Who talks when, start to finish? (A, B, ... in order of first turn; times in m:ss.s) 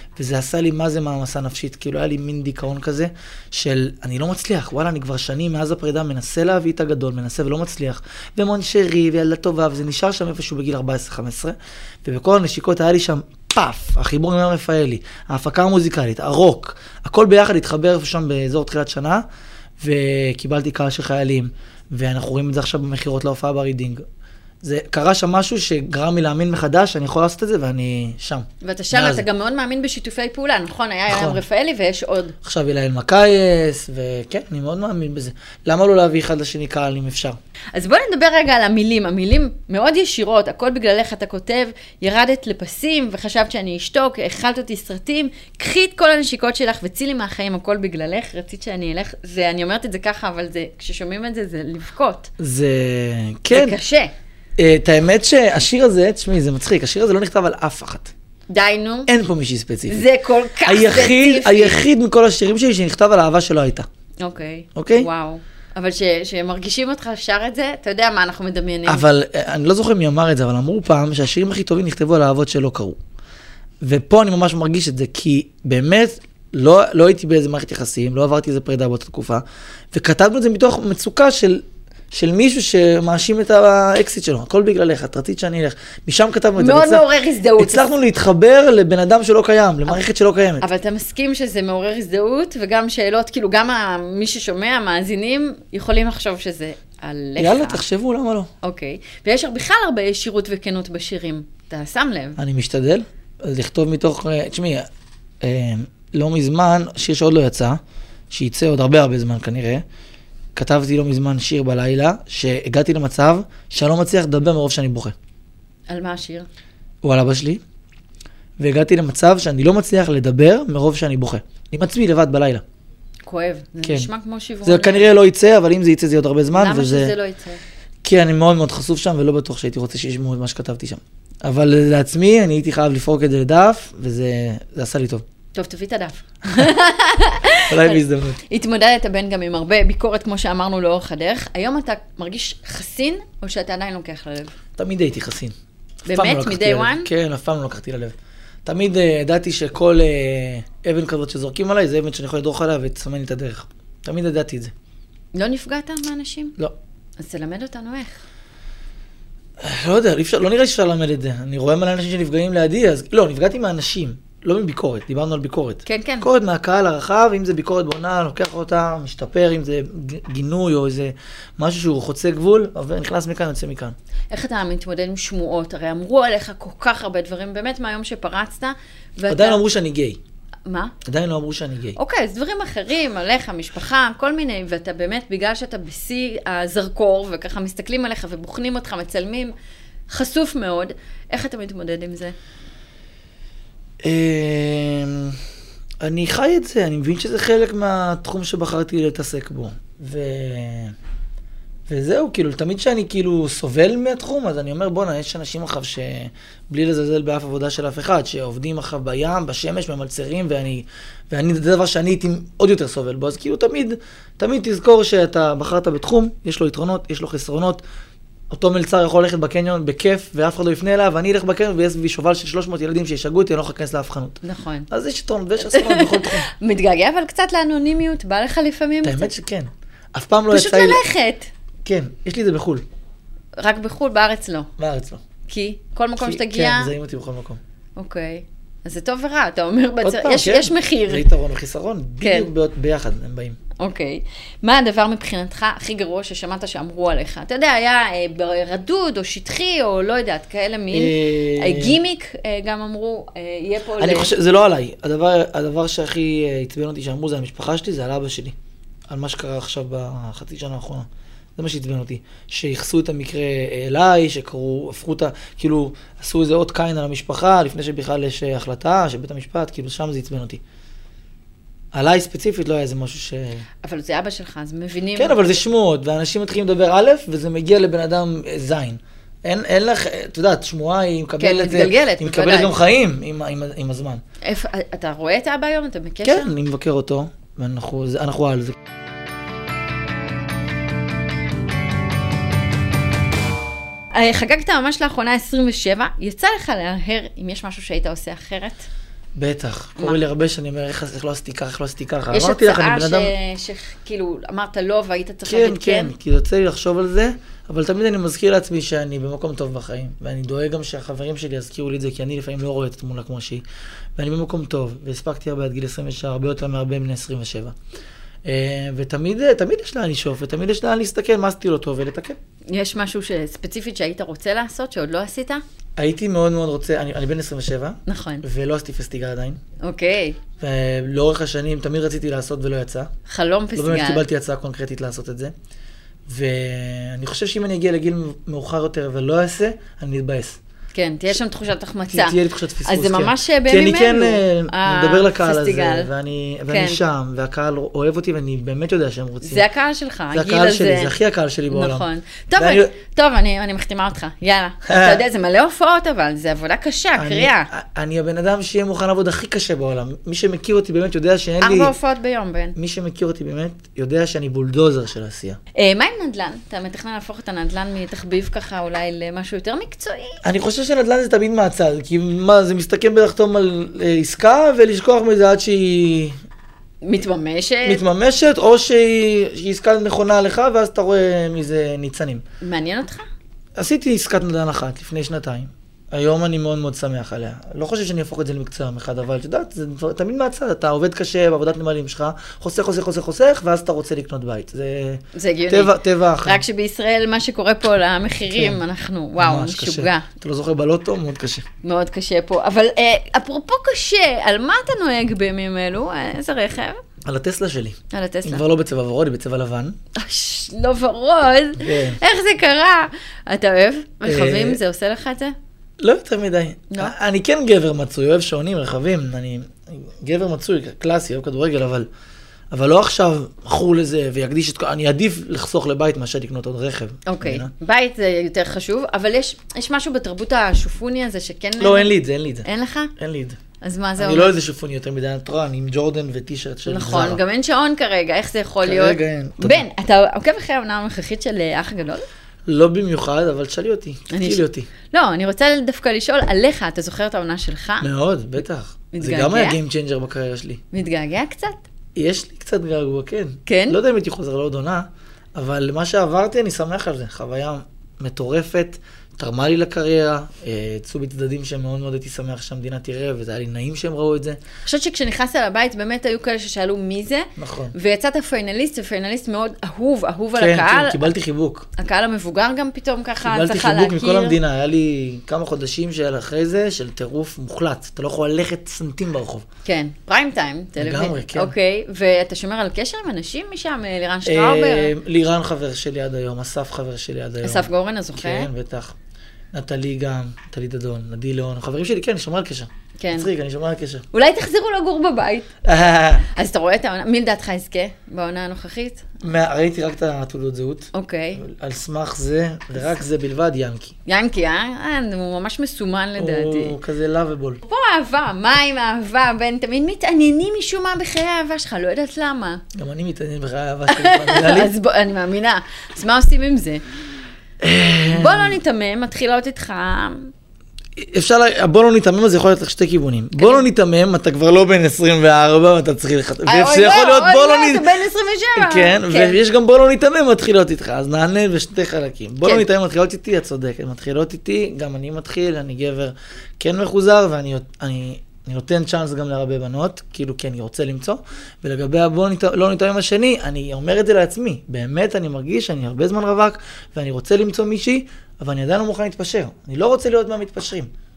0:00.2-0:19.2 A
0:19.8-0:24.0 A
0:24.6-0:29.2 A
0:28.6-0:32.4 B
0:31.1-0:31.4 A
0:32.4-0:37.4 A
0:37.7-0:52.3 B
0:52.4-0:53.8 A
0:53.5-0:54.1 B
0:54.6-0:58.1 A
0:58.5-0:59.1 B
0:59.1-1:00.1 A
0:59.9-1:01.8 B
1:00.6-1:03.9 A
1:04.2-1:09.0 B
1:04.8-1:05.1 A
1:08.9-1:13.0 A
1:13.8-1:27.1 A
1:26.6-1:27.9 B
1:27.6-1:30.6 A
1:30.6-1:37.8 B
1:37.4-1:38.5 A
1:38.6-1:42.4 B
1:42.4-1:44.9 A
1:45.4-1:47.8 A
1:48.3-1:49.8 A
1:50.6-1:55.2 A
1:55.9-1:56.5 B
1:57.0-1:57.6 A
1:58.6-2:02.6 A
2:03.2-2:05.1 B
2:03.8-2:04.1 A
2:04.6-2:07.1 A
2:06.5-2:07.6 B
2:08.0-2:15.2 A
2:15.5-2:24.5 B
2:17.7-2:18.4 A
2:24.8-2:25.5 A
2:26.1-2:27.1 B
2:26.1-2:34.7 A
2:35.3-2:36.6 B
2:37.2-2:38.2 B
2:39.6-2:54.0 A
2:45.9-2:46.3 B
2:54.3-2:59.6 B
2:59.3-3:00.2 A
3:00.7-3:01.0 B
3:01.0-3:02.0 A
3:02.0-3:09.5 B
3:10.1-3:12.4 B
3:14.0-3:15.4 A
3:16.0-3:21.0 A
3:21.9-3:37.8 A
3:38.5-3:46.5 A
3:44.4-3:44.9 B
3:45.6-3:49.3 B
3:49.0-3:51.0 A
3:50.5-3:51.5 B
3:51.8-3:52.8 A
3:53.6-3:54.7 B
3:54.8-3:55.2 A
3:55.5-3:56.9 B
3:56.2-3:57.6 A
3:58.0-4:01.3 B
4:00.0-4:03.6 A
4:02.2-4:02.5 B
4:03.8-4:14.3 B
4:10.9-4:12.0 A
4:14.0-4:18.6 A
4:19.1-4:30.6 A
4:31.9-4:33.7 A
4:33.8-4:35.5 B
4:35.2-4:44.2 A
4:41.4-4:42.8 B
4:44.4-4:46.5 B
4:46.2-4:48.8 A
4:54.1-4:58.9 B
4:59.4-5:03.3 A
5:02.3-5:06.1 B
5:05.5-5:13.6 A
5:14.2-5:17.8 A
5:18.4-5:22.4 A
5:22.7-5:25.6 B
5:26.0-5:29.6 A
5:28.1-5:28.4 B
5:29.8-5:30.4 B
5:30.6-5:33.1 A
5:33.3-5:34.2 B
5:33.8-5:35.5 A
5:36.3-5:40.6 A
5:40.9-5:46.1 B
5:42.1-5:49.6 A
5:46.7-5:47.0 B
5:49.4-5:51.2 B
5:50.3-5:52.9 A
5:51.7-5:57.7 B
5:54.8-5:55.2 A
5:57.2-6:01.9 A
6:01.6-6:02.8 B
6:02.8-6:05.6 A
6:05.8-6:10.4 B
6:10.4-6:16.4 A
6:17.0-6:18.0 B
6:17.8-6:22.4 A
6:22.6-6:23.3 B
6:23.8-6:36.6 A
6:35.3-6:40.3 B
6:38.5-6:38.8 A
6:39.4-6:41.7 A
6:41.8-6:47.0 B
6:47.2-6:50.0 A
6:48.1-6:48.6 B
6:50.2-6:55.6 B
6:51.8-6:52.2 A
6:54.2-6:54.8 A
6:56.0-7:02.1 A
7:02.7-7:07.7 A
7:07.3-7:12.1 B
7:11.8-7:13.6 A
7:12.6-7:13.1 B
7:13.8-7:14.6 B
7:14.2-7:17.4 A
7:16.9-7:22.3 B
7:18.8-7:19.8 A
7:22.7-7:24.9 A
7:24.3-7:28.1 B
7:28.0-7:30.8 A
7:29.1-7:29.8 B
7:30.9-7:31.8 B
7:32.2-7:44.6 A
7:33.7-7:34.0 B
7:44.8-7:51.3 B
7:47.6-7:48.0 A
7:50.6-7:51.9 A
7:52.0-7:54.6 B
7:53.4-7:59.6 A
7:59.8-8:05.1 B
8:01.0-8:01.7 A
8:04.4-8:09.2 A
8:07.6-8:08.7 B
8:09.7-8:14.3 A
8:13.2-8:13.5 B
8:14.3-8:15.7 B
8:15.8-8:16.5 A
8:16.5-8:19.2 B
8:19.4-8:24.2 A
8:21.1-8:21.6 B
8:24.3-8:27.0 B
8:26.4-8:27.8 A
8:27.8-8:32.8 B
8:32.9-8:34.9 A
8:34.1-8:37.0 B
8:37.8-8:38.8 A
8:38.3-8:40.5 B
8:41.2-8:48.1 A
8:43.6-8:43.9 B
8:46.7-8:49.6 B
8:48.8-9:11.1 A